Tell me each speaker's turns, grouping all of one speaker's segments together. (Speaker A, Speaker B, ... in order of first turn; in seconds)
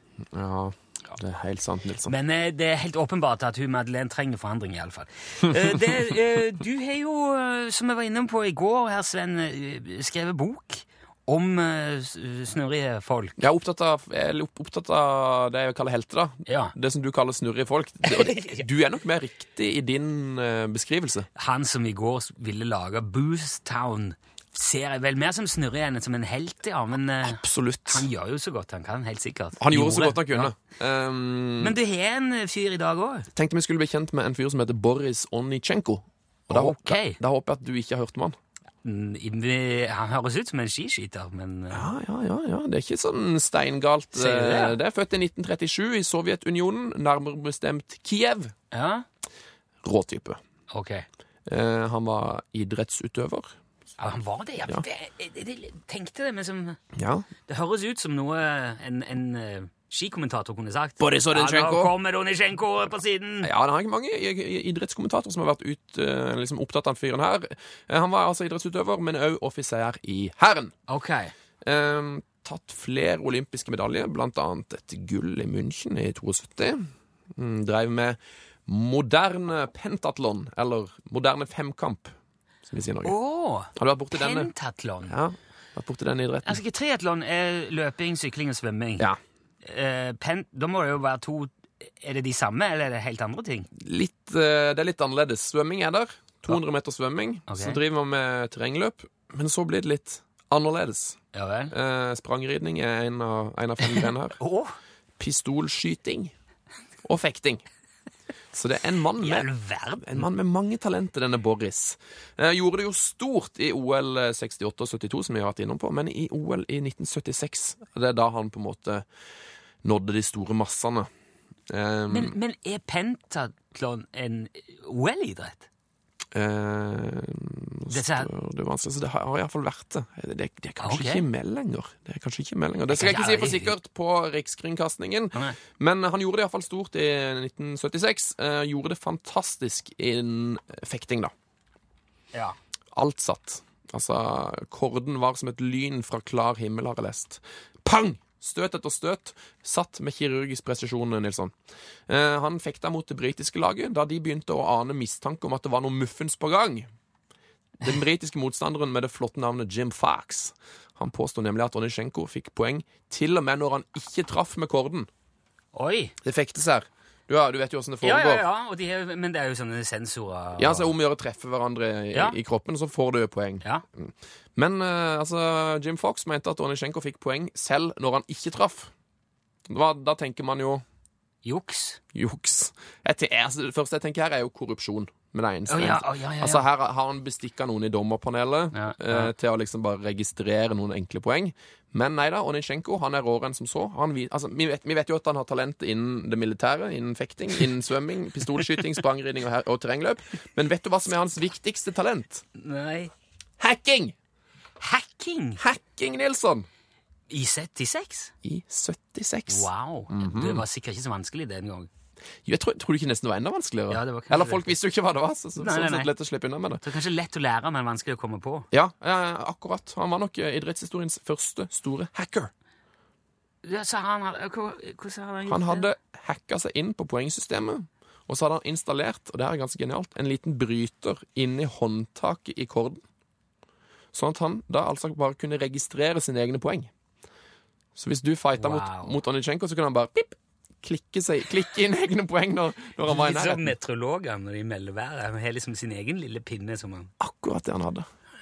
Speaker A: 0.3-2.1, 5.5-5.9, 13.4-21.3, 27.2-28.1, 29.6-31.8, 33.3-38.4, 41.7-48.5, 49.8-50.4, 51.5-53.5, 56.9-57.3, 61.0-61.9, 63.4-70.7, 71.6-82.1, 82.6-83.1, 83.7-84.5, 85.0-86.6, 93.7-101.2, 101.7-104.4, 105.2-106.3, 107.0-107.6, 108.5-109.5, 110.0-119.0, 119.8-121.1, 121.7-122.3, 126.3-141.3, 142.9-151.5, 152.1-156.9, 157.8-165.1, 166.2-168.4, 170.6-178.9, 179.7-180.8, 182.1-202.4, 203.6-204.1, 205.6-206.7, 208.4-210.6, 212.4-216.8, 218.7-222.5, 225.4-233.0, 234.1-236.9, 237.9-243.7, 247.2-248.1
Speaker B: 2.0-13.4, 16.5-16.7, 18.0-18.6, 21.4-30.5, 31.6-33.3, 36.5-37.2, 38.8-41.9, 44.1-44.8, 48.7-49.0, 50.7-51.1, 54.0-56.8, 57.5-63.5, 70.9-71.3, 83.0-85.1, 86.4-89.1, 89.6-93.7, 97.5-97.8, 101.3-101.7, 103.8-104.8, 109.2-110.2, 122.1-125.7, 127.9-128.3, 130.8-131.2, 132.9-133.7, 165.7-166.1, 168.0-170.9, 181.4-182.0, 185.7-186.6, 188.7-189.3, 202.6-203.1, 204.8-205.6, 207.3-208.3, 209.5-211.9, 213.9-214.7, 215.6-216.1, 216.8-218.7, 223.6-225.9, 238.6-239.2, 243.1-247.1